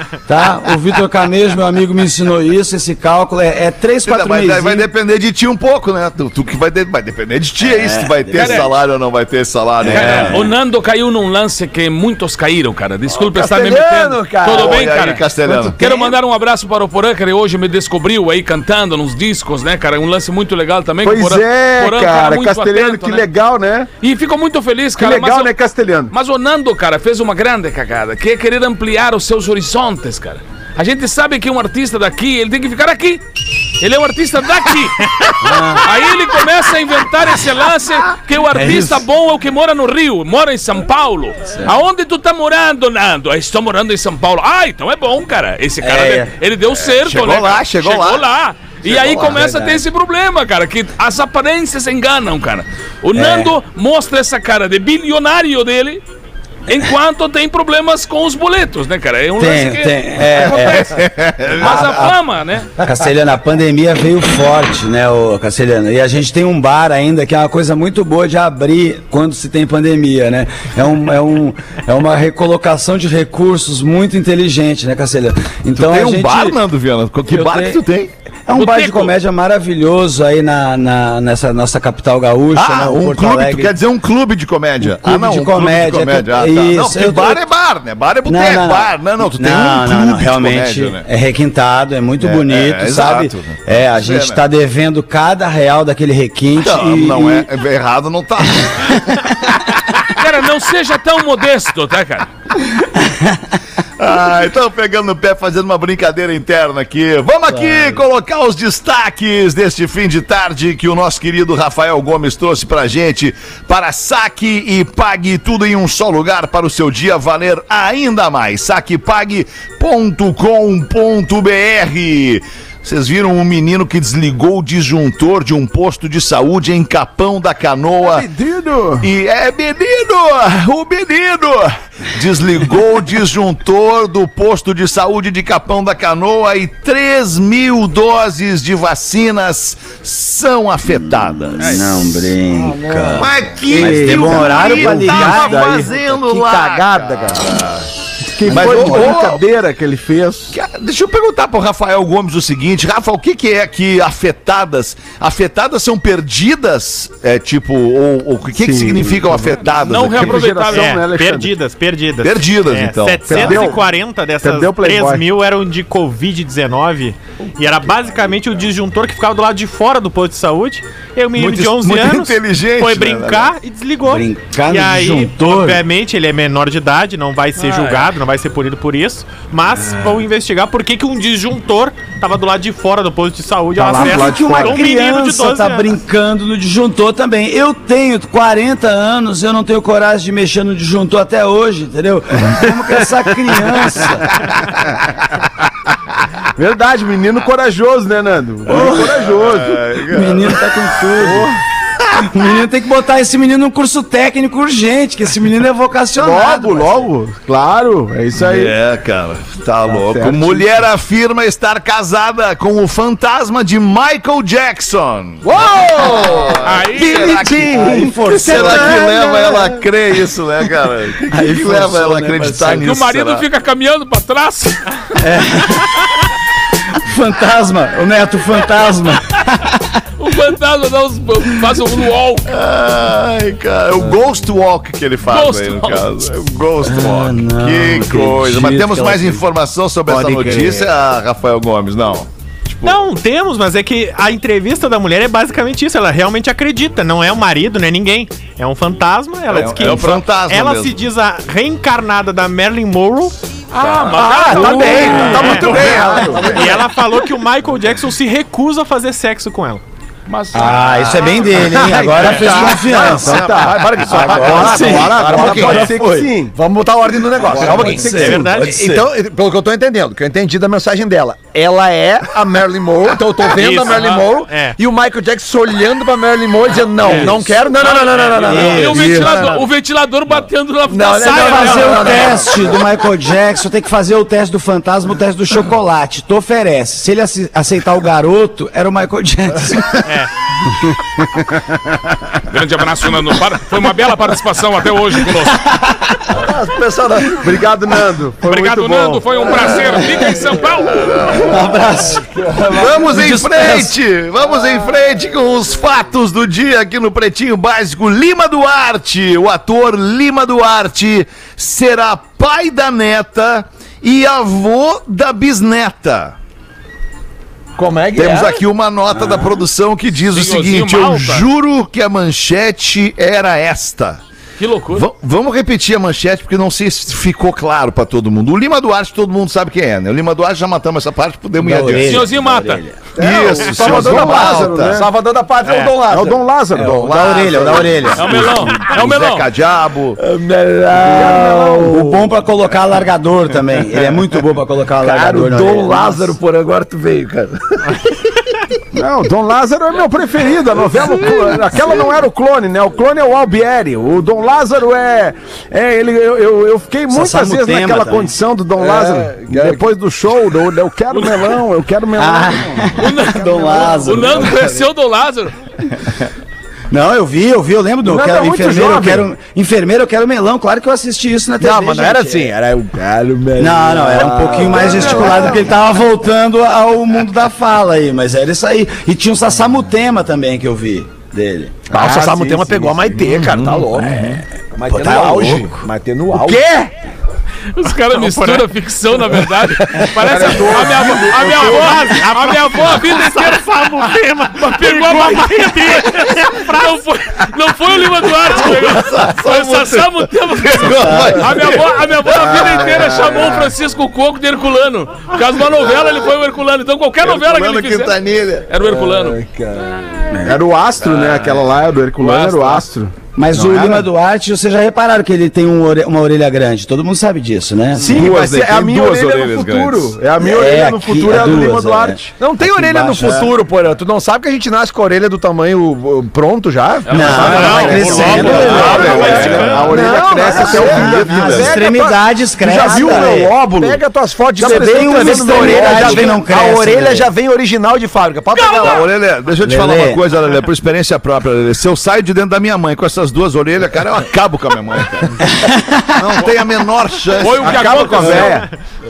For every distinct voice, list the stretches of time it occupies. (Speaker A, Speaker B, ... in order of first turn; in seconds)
Speaker A: 0.2-4.9, 7.6-8.7, 9.8-10.5, 35.4-35.9, 38.5-39.0, 45.8-46.3, 49.3-49.8, 53.2-53.5, 59.4-61.0, 61.6-62.1, 62.8-76.6, 77.3-77.8, 78.5-83.7, 84.8-87.4, 88.3-97.5, 103.0-103.4, 107.5-107.9, 141.2-146.6, 148.3-149.2, 174.0-175.8, 183.8-194.5, 198.7-199.1, 200.1-201.5, 202.2-207.1, 217.7-219.3, 221.3-222.9, 225.2-225.9, 226.9-229.8, 236.8-239.4, 260.5-265.9, 267.6-269.1, 278.4-279.4, 281.2-290.1, 295.9-296.3, 301.3-303.9, 319.2-319.5, 331.6-333.0, 336.8-338.2, 341.1-346.4, 357.1-358.3, 362.2-364.7, 366.9-372.5, 373.6-381.8, 384.9-385.8, 410.3-410.6, 413.4-418.1, 420.4-423.5, 427.1-429.2, 430.0-433.5, 434.6-437.3, 439.6-440.2, 445.5-446.1
Speaker B: 4.0-10.5, 14.5-15.8, 46.8-48.3, 48.8-49.6, 60.4-62.1, 75.8-78.1, 82.5-91.1, 92.2-94.4, 96.6-99.6, 104.0-128.3, 129.0-141.9, 143.2-147.9, 148.5-149.4, 150.5-160.4, 162.2-163.6, 171.4-173.5, 198.8-200.7, 208.3-223.5, 232.5-243.1, 249.5-251.0, 263.6-264.6, 300.9-301.6, 302.7-316.4, 318.1-324.2, 324.9-332.4, 333.2-335.0, 336.8-340.2, 383.2-384.4, 398.5-402.1, 407.2-408.7, 418.0-420.1, 428.2-430.1, 430.8-431.7, 438.8-445.5, 446.2-448.4
Speaker C: 8.4-8.7, 9.9-23.2, 24.0-25.5, 26.1-33.2, 33.8-56.0, 56.7-60.6, 61.5-62.7, 78.5-79.1, 100.1-102.3, 141.6-142.0, 159.7-161.0, 177.6-178.1, 216.6-217.4, 222.8-224.9, 230.2-232.5, 235.3-236.1, 253.7-256.1, 260.3-261.3, 273.6-274.0, 277.0-282.7, 292.4-295.7, 298.4-301.3, 320.2-321.5, 324.6-325.1, 332.0-332.8, 338.2-339.5, 361.1-361.6, 363.0-365.6, 387.8-408.2, 408.7-409.4, 411.1-411.6, 412.2-412.9, 427.1-429.8, 438.5-439.1, 447.4-448.7
Speaker D: 13.1-14.9, 142.7-143.3, 215.7-216.2, 240.1-240.9, 253.9-256.9, 261.5-279.6, 280.9-282.7, 296.3-297.5, 317.8-318.6, 333.2-338.5, 340.2-342.3, 345.0-348.0, 358.8-359.9, 371.6-375.7, 381.9-386.9, 408.8-410.1, 422.4-439.1
Speaker E: 21.0-23.9, 25.0-26.1, 128.0-129.1, 143.6-145.9, 146.5-147.2, 148.4-150.5, 158.6-159.3, 160.1-161.5, 163.3-163.9, 164.4-165.2, 183.9-184.8, 196.6-199.8, 201.2-201.6, 206.2-208.7, 209.9-210.6, 215.4-219.7, 253.8-256.6, 262.4-266.5, 267.4-268.5, 278.9-279.4, 297.4-300.1, 333.4-335.1, 336.1-337.8, 341.1-342.0, 348.9-364.3, 368.0-369.3, 374.3-375.7, 381.9-383.0, 390.1-392.0, 410.4-414.1, 418.0-422.4, 427.3-432.1, 432.7-434.0, 434.6-436.5, 447.6-448.7
Speaker F: 160.5-186.0, 242.8-253.3, 254.6-255.7, 256.4-259.8, 268.1-268.8, 273.6-274.8, 277.1-277.6, 290.1-290.3, 335.6-336.0, 388.1-388.7, 390.7-397.0, 428.7-430.0